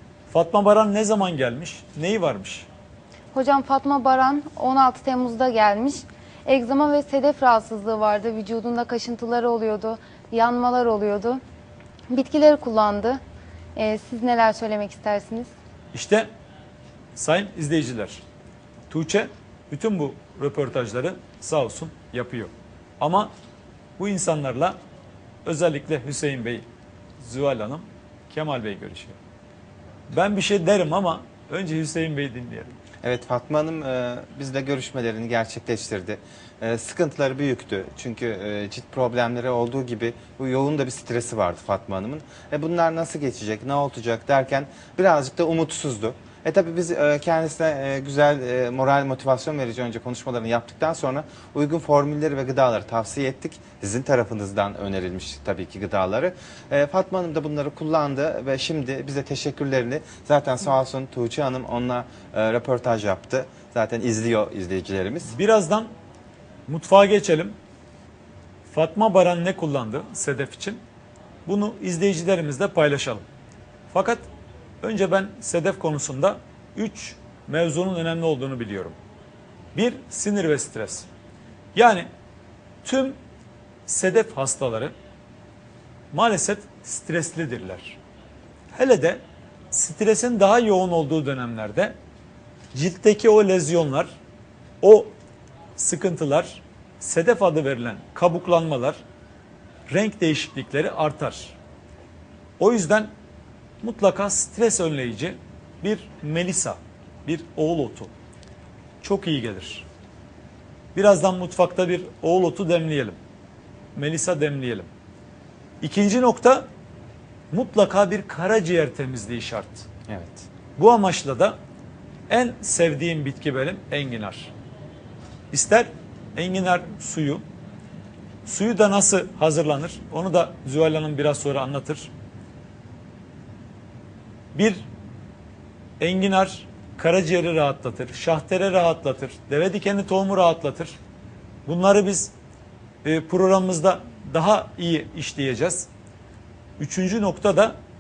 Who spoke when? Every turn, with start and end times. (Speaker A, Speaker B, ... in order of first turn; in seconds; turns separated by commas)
Speaker A: 0.3-2.7, Speaker B: 3.3-11.4, Speaker B: 12.1-13.2, Speaker B: 13.8-15.5, Speaker A: 15.9-16.3, Speaker A: 17.2-18.2, Speaker A: 18.9-23.3, Speaker A: 24.0-24.8, Speaker A: 25.4-26.7, Speaker A: 27.2-29.2, Speaker A: 30.1-32.8, Speaker C: 33.0-65.3, Speaker A: 65.3-65.9, Speaker A: 66.7-67.6, Speaker A: 68.7-70.8, Speaker A: 71.5-73.2, Speaker A: 73.9-74.3, Speaker A: 74.8-79.0, Speaker A: 79.8-81.1, Speaker A: 81.8-82.1, Speaker A: 82.8-83.2, Speaker A: 83.9-84.9, Speaker A: 86.1-88.0, Speaker A: 88.7-92.0, Speaker A: 92.7-94.1, Speaker A: 94.8-95.1, Speaker A: 95.8-99.0, Speaker A: 99.9-101.6, Speaker A: 102.6-103.1, Speaker A: 103.8-108.1, Speaker A: 109.0-109.9, Speaker A: 111.0-113.2, Speaker A: 114.0-114.9, Speaker A: 115.8-116.7, Speaker A: 117.5-119.8, Speaker C: 120.1-120.5, Speaker A: 120.8-121.6, Speaker A: 122.3-124.5, Speaker A: 125.5-127.5, Speaker A: 128.5-132.1, Speaker A: 134.6-134.9, Speaker A: 136.0-141.0, Speaker A: 141.7-142.3, Speaker A: 143.0-145.9, Speaker A: 146.8-147.8